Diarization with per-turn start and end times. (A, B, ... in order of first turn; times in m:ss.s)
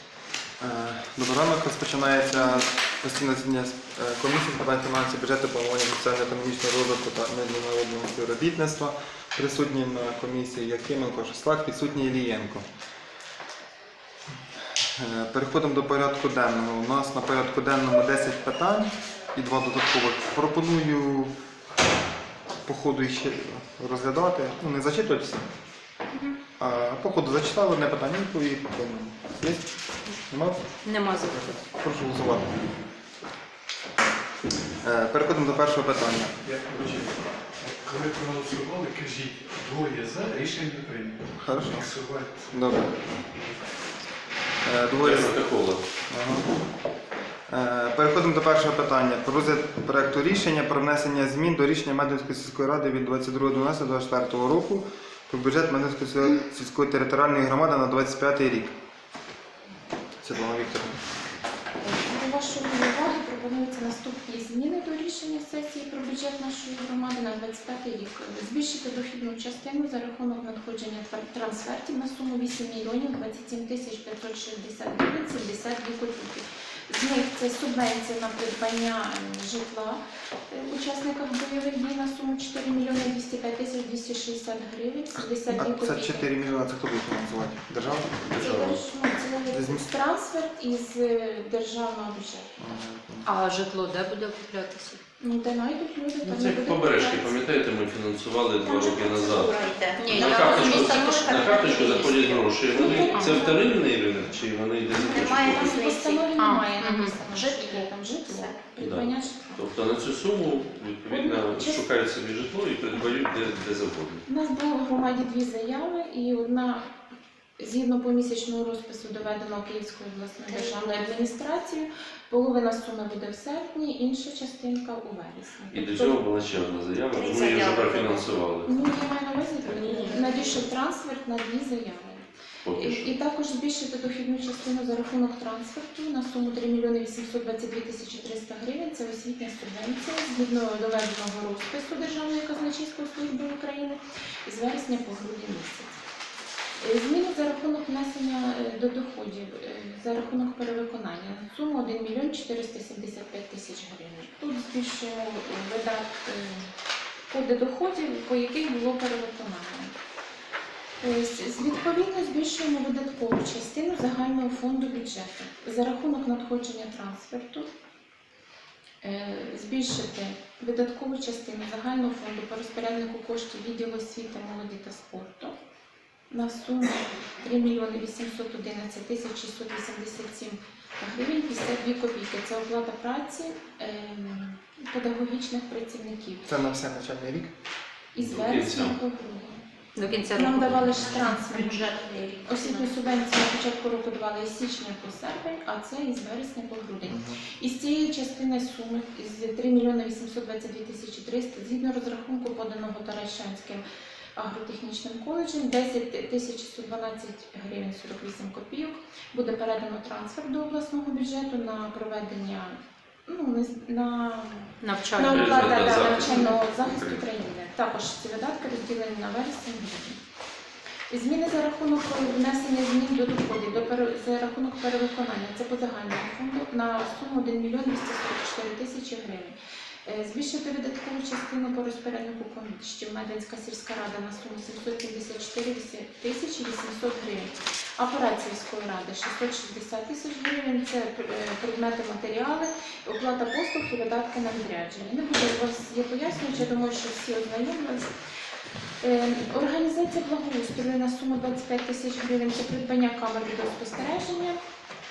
0:00.6-0:12.6 A
0:14.3-0:21.3 A
0:22.6-0:25.4 A
0:26.6-0:29.7 A
0:30.3-0:30.6 A
0:30.8-0:31.6 B
0:31.2-0:32.6 A
0:34.8-0:36.3 A
0:35.5-0:43.7 C
0:41.4-0:41.9 A
0:42.5-0:42.9 A
0:44.6-0:45.4 A
0:45.0-0:45.8 D
0:46.1-0:46.5 A
0:47.5-0:58.7 A
1:00.2-1:01.0 A
1:01.8-1:26.3 E
1:25.2-1:28.8 A
1:28.3-1:32.5 E
1:28.4-1:28.7 D
1:29.5-1:29.9 A
1:32.6-1:33.3 A
1:33.2-1:35.0 B
1:35.2-1:37.4 E
1:36.2-1:39.6 D
1:38.6-1:43.0 F
1:40.0-1:41.7 B
1:40.1-1:45.8 D
1:42.7-1:43.8 E
1:42.9-1:43.5 B
1:44.9-1:49.6 E
1:45.0-1:46.4 F
1:46.4-1:47.2 B
1:47.2-1:48.6 F
1:48.8-1:54.2 D
1:51.1-1:51.8 E
1:54.3-1:56.9 E
1:57.6-2:06.2 E
2:00.5-2:01.0 F
2:05.7-2:08.7 D
2:07.1-2:08.4 F
2:08.6-2:26.0 E
2:09.7-2:10.6 F
2:09.8-2:10.5 B
2:12.6-2:13.1 D
2:26.8-2:36.7 E
2:37.3-2:40.0 E
2:41.0-2:47.7 E
2:49.0-2:55.5 E
2:56.3-3:06.4 E
3:06.4-3:07.5 A
3:08.1-3:09.6 E
3:08.2-3:08.9 D
3:10.0-3:11.4 B
3:10.2-3:11.9 E
3:10.9-3:13.3 F
3:12.4-3:23.8 E
3:17.0-3:17.4 A
3:24.4-3:40.2 E
3:34.8-3:35.9 B
3:35.3-3:37.2 D
3:41.1-3:49.5 E
3:50.0-4:08.1 E
4:09.0-4:14.6 E